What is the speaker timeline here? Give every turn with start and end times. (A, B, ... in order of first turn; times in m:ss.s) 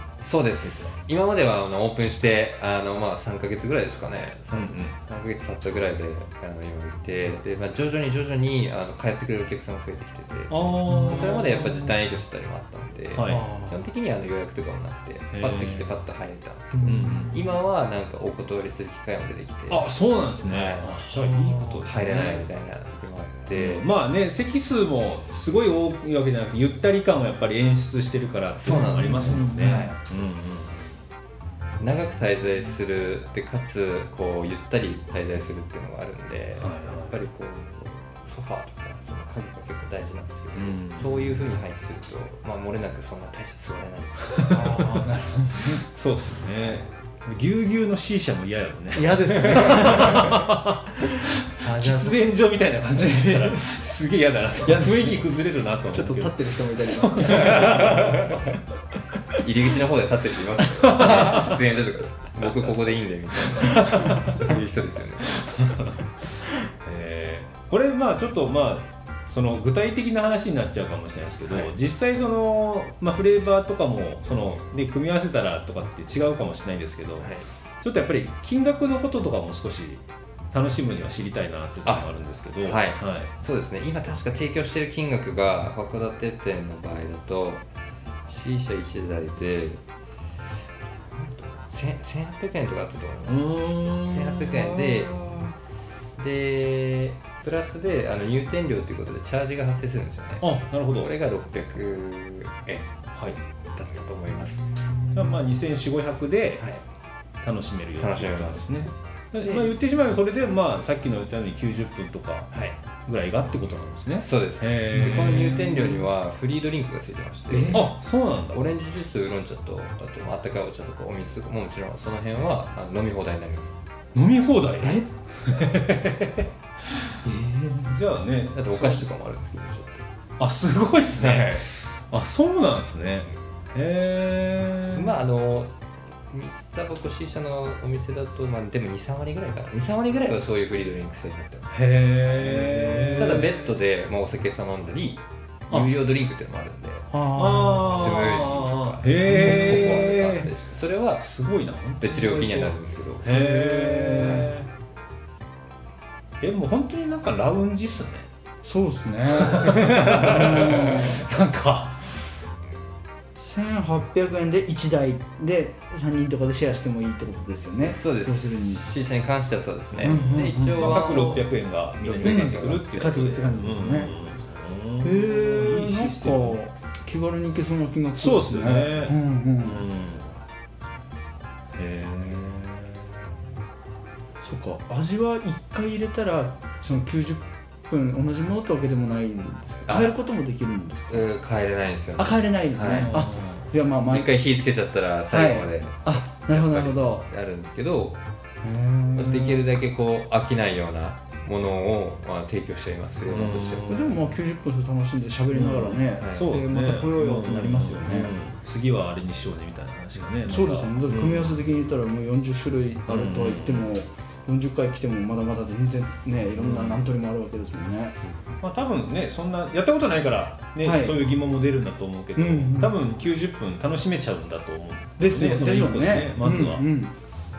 0:00.2-0:19.9 A
0:00.6-0:00.9 B
0:04.5-0:05.0 B
0:10.5-0:12.0 B
0:10.9-0:11.3 C
0:13.1-0:13.5 B
0:13.2-0:13.8 C
0:15.3-0:15.9 B
0:16.7-0:17.4 C
0:16.8-0:17.5 B
0:19.7-0:22.5 B
0:20.4-0:21.0 A
0:21.1-0:21.9 C
0:21.8-0:23.9 A
0:23.5-0:31.0 B
0:28.6-0:30.0 A
0:28.7-0:29.9 C
0:31.8-0:44.8 A
0:36.6-0:37.1 B
0:40.6-0:41.4 B
0:44.3-0:58.3 B
0:44.5-0:45.8 C
0:48.9-0:50.5 C
0:51.0-0:51.2 C
0:51.6-0:52.2 A
0:53.0-0:53.8 C
0:54.6-0:55.3 C
0:55.9-0:58.5 C
0:57.3-0:58.4 A
0:59.4-1:05.8 A
1:00.8-1:01.6 B
1:03.5-1:04.4 B
1:05.5-1:05.9 B
1:06.8-1:23.3 B
1:17.2-1:17.5 A
1:22.6-1:27.6 A
1:28.3-1:29.8 A
1:31.1-1:35.3 A
1:33.3-1:35.3 B
1:36.2-1:42.9 A
1:40.4-1:41.1 B
1:43.8-1:44.8 A
1:45.1-1:46.7 B
1:47.4-1:52.5 B
1:48.0-1:48.8 A
1:49.4-1:49.7 A
1:53.0-1:55.9 B
1:54.2-1:57.9 A
1:54.9-1:56.0 C
1:57.5-1:57.9 C
1:57.7-1:58.7 B
1:58.5-2:03.7 A
2:04.1-2:07.2 B
2:07.3-2:07.9 C
2:07.9-2:09.1 B
2:08.5-2:10.0 A
2:10.4-2:15.2 B
2:11.2-2:11.7 A
2:14.9-2:15.7 A
2:16.3-2:22.2 A
2:21.7-2:23.7 B
2:22.4-2:23.4 C
2:23.2-2:31.3 A
2:27.1-2:28.2 C
2:27.4-2:30.5 B
2:29.2-2:30.0 C
2:31.2-2:34.7 B
2:32.0-2:33.4 A
2:33.3-2:34.5 C
2:36.4-2:38.3 B
2:38.6-2:41.2 C
2:39.3-2:42.2 B
2:43.4-2:48.8 C
2:47.8-2:53.0 A
2:50.0-2:51.3 C
2:50.8-2:56.6 B
2:52.2-2:54.1 C
2:55.0-2:59.9 C
2:58.2-3:00.4 B
3:01.7-3:03.3 B
3:04.4-3:11.3 C
3:09.9-3:10.2 A
3:11.1-3:13.3 A
3:12.2-3:14.3 C
3:12.9-3:13.7 B
3:14.0-3:18.2 A
3:15.3-3:17.3 C
3:18.6-3:19.6 C
3:19.2-3:24.0 A
3:23.3-3:24.3 B
3:23.9-3:28.3 C
3:25.5-3:31.7 B
3:26.2-3:26.6 A
3:30.5-3:38.2 C
3:33.1-3:33.9 B
3:36.6-3:37.1 B
3:38.2-3:38.6 A
3:38.6-3:46.9 B
3:40.8-3:41.2 C
3:42.4-3:43.0 C
3:45.2-3:47.1 C